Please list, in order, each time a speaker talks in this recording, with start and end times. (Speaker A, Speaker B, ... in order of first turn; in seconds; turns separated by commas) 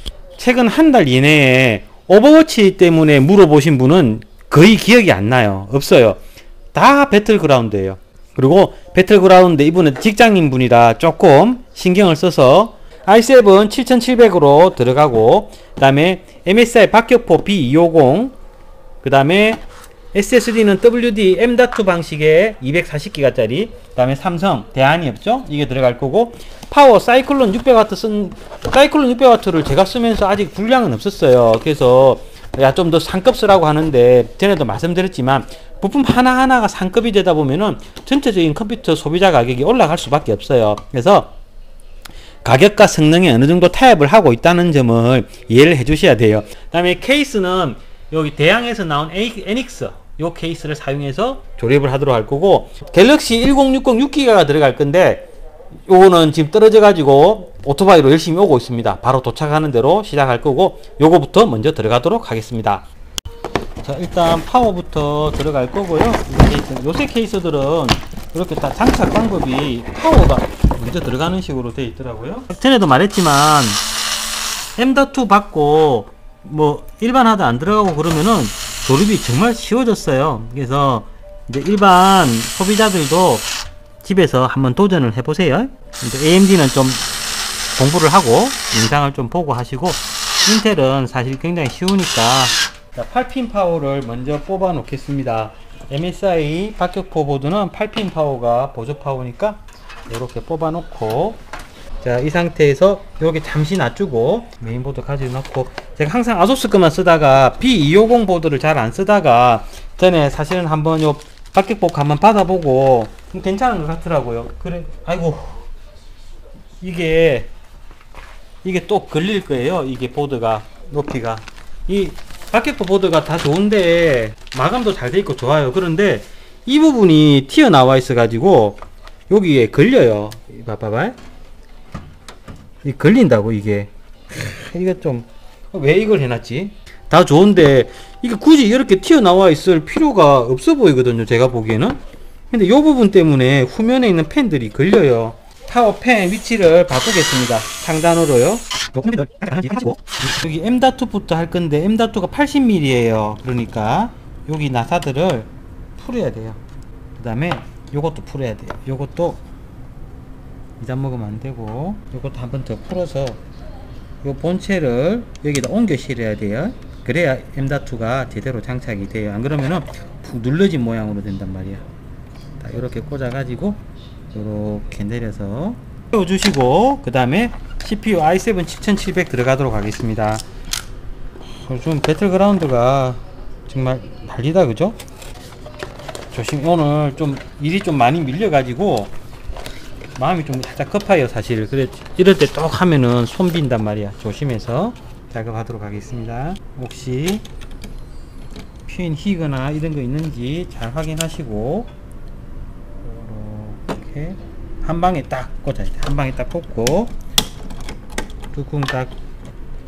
Speaker A: 0.4-6.2, Speaker A: 6.7-18.4, Speaker A: 19.0-41.3, Speaker A: 42.4-55.3, Speaker A: 55.9-62.9, Speaker A: 63.8-73.8, Speaker A: 74.8-83.5, Speaker A: 84.0-87.1, Speaker A: 87.8-101.4, Speaker A: 102.0-115.7, Speaker A: 116.8-117.5, Speaker A: 118.6-131.2, Speaker A: 132.8-156.6, Speaker A: 157.2-159.4, Speaker A: 160.8-163.4, Speaker A: 164.2-171.8, Speaker A: 172.6-180.4, Speaker A: 181.4-185.0, Speaker A: 186.3-189.1, Speaker A: 190.2-197.5, Speaker A: 198.9-201.9, Speaker A: 203.0-207.2, Speaker A: 208.5-209.1